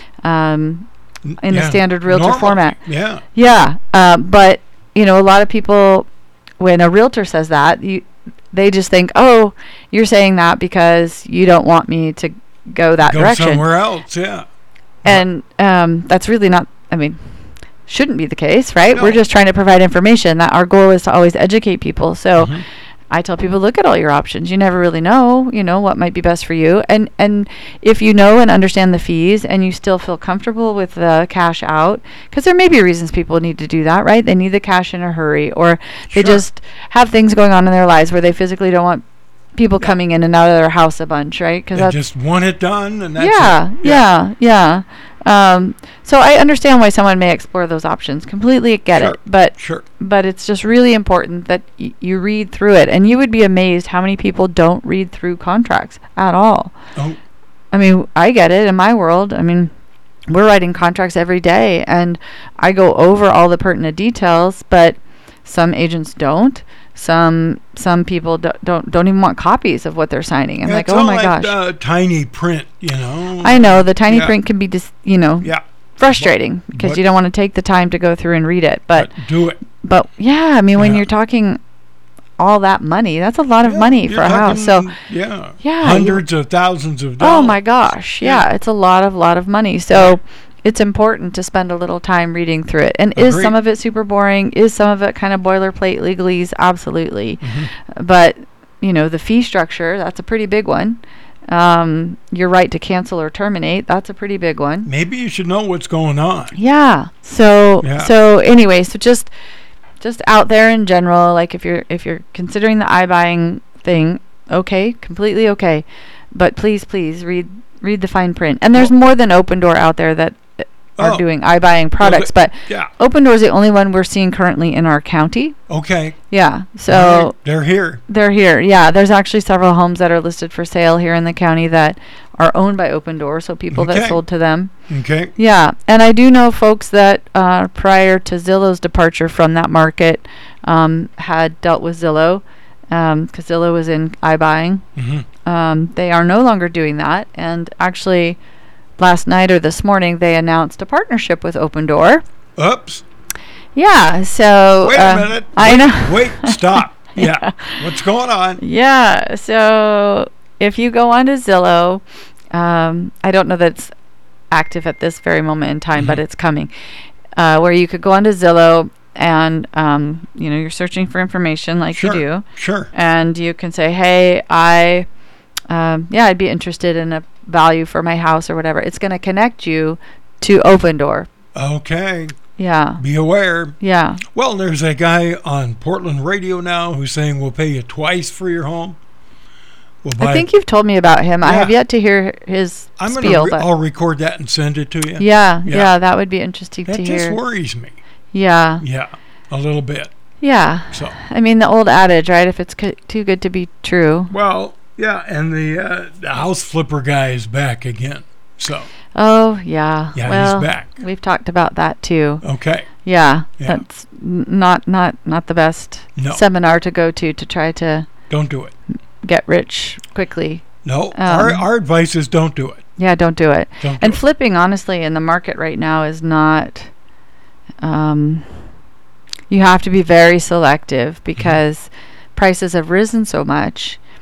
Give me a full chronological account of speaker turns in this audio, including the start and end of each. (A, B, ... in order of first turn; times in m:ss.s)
0:00.2-0:00.9 A
0:01.2-0:03.2 B
0:01.4-0:02.8 A
0:03.3-0:06.1 A
0:06.6-0:13.6 A
0:13.0-0:14.5 B
0:15.0-0:17.2 A
0:17.9-0:22.6 A
0:18.9-0:19.2 B
0:22.4-0:22.6 B
0:23.1-0:39.0 A
0:36.1-0:36.4 B
0:39.5-0:42.0 A
0:41.7-0:44.0 B
0:43.2-0:56.8 A
0:48.9-0:49.8 B
0:57.7-0:59.7 A
1:00.3-1:11.5 A
1:10.6-1:14.4 B
1:13.4-1:19.1 A
1:15.4-1:17.0 B
1:18.9-1:19.6 B
1:19.8-1:21.6 A
1:20.8-1:21.0 B
1:22.4-1:24.9 A
1:23.6-1:27.6 B
1:25.6-1:26.2 A
1:27.2-1:44.9 A
1:29.9-1:30.2 B
1:33.2-1:33.6 B
1:37.4-1:37.7 B
1:44.8-1:46.5 B
1:46.5-1:49.3 A
1:47.8-1:48.1 B
1:50.0-2:05.6 A
2:01.0-2:01.2 B
2:02.0-2:02.9 B
2:05.7-2:06.2 B
2:06.3-2:07.3 A
2:06.9-2:08.0 B
2:08.1-2:14.7 A
2:13.7-2:14.2 B
2:14.9-2:15.3 B
2:15.4-2:24.8 A
2:25.0-2:25.2 B
2:25.4-2:28.4 A
2:29.0-2:32.2 A
2:32.6-2:33.0 B
2:33.7-2:37.8 A
2:34.8-2:38.6 B
2:38.6-2:43.9 A
2:44.5-2:46.7 A
2:47.4-2:55.1 A
2:51.9-2:52.9 B
2:55.7-3:01.3 A
3:01.5-3:02.4 B
3:02.6-3:03.0 A
3:03.0-3:03.8 B
3:03.8-3:04.2 A
3:04.3-3:09.0 B
3:10.0-3:10.5 B
3:10.2-3:13.7 A
3:11.4-3:11.7 B
3:13.0-3:15.9 B
3:15.2-3:17.4 A
3:16.9-3:18.0 B
3:18.3-3:18.8 A
3:18.8-3:20.1 B
3:20.4-3:24.3 A
3:24.3-3:28.9 B
3:29.1-3:32.4 A
3:30.1-3:31.0 B
3:32.4-3:32.9 B
3:33.0-3:38.1 A
3:36.2-3:36.4 B
3:38.3-3:38.7 B
3:39.2-3:41.6 A
3:40.8-3:42.8 B
3:43.0-3:46.9 A
3:43.8-3:44.2 B
3:47.8-3:48.5 A
3:49.5-3:54.0 A